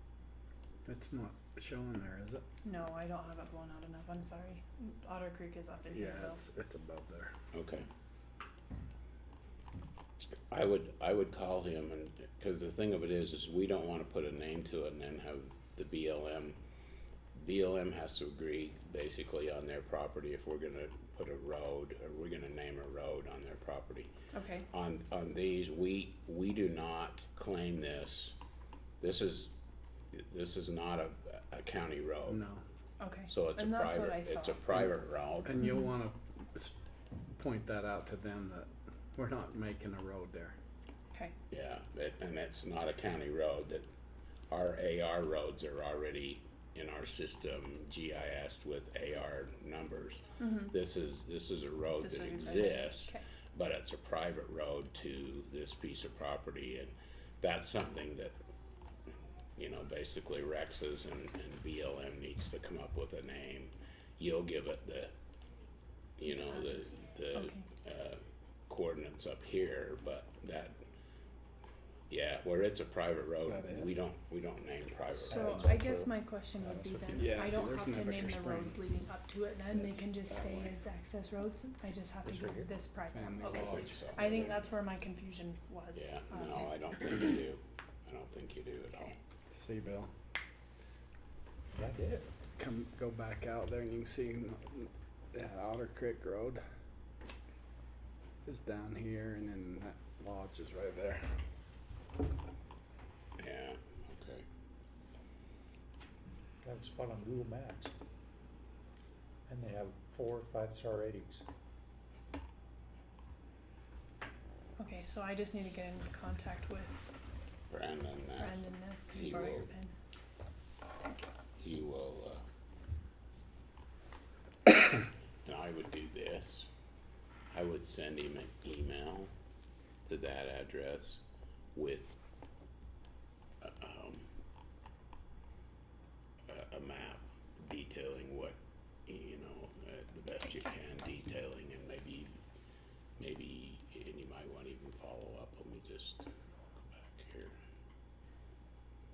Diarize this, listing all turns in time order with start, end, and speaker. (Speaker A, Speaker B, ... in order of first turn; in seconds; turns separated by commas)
Speaker A: 0.8-2.4, Speaker B: 2.6-6.4, Speaker A: 5.9-7.3, Speaker C: 7.5-7.8, Speaker C: 10.5-16.6, Speaker C: 17.3-24.1, Speaker B: 24.3-24.7, Speaker C: 24.7-28.3, Speaker C: 29.0-29.5, Speaker C: 30.1-32.4, Speaker A: 32.2-32.6, Speaker B: 33.0-34.6, Speaker C: 33.3-35.6, Speaker A: 35.4-36.7, Speaker B: 35.6-35.9, Speaker A: 37.3-40.6, Speaker C: 41.5-43.9, Speaker C: 44.5-58.4, Speaker B: 50.4-50.7, Speaker B: 52.0-53.2, Speaker C: 59.6-65.1, Speaker C: 66.2-70.8, Speaker B: 66.3-66.8, Speaker B: 67.3-67.7, Speaker C: 72.1-75.6, Speaker A: 73.4-73.9, Speaker D: 75.1-77.4, Speaker B: 75.2-86.7, Speaker A: 77.1-78.8, Speaker A: 79.7-80.8, Speaker D: 82.2-82.7, Speaker A: 83.1-84.2, Speaker C: 83.4-84.6, Speaker C: 85.9-89.2, Speaker A: 89.5-90.1, Speaker D: 91.7-92.2, Speaker A: 92.5-96.6, Speaker A: 98.4-101.3, Speaker C: 103.4-104.4, Speaker D: 106.6-107.9, Speaker D: 109.5-111.5, Speaker B: 114.8-117.1, Speaker C: 117.7-119.7, Speaker B: 118.4-119.9, Speaker B: 121.0-121.3, Speaker C: 121.6-122.4, Speaker C: 124.7-126.7, Speaker C: 127.5-129.3, Speaker C: 130.0-131.2, Speaker C: 131.7-132.2, Speaker C: 133.6-134.2, Speaker C: 136.5-142.3, Speaker C: 143.2-147.6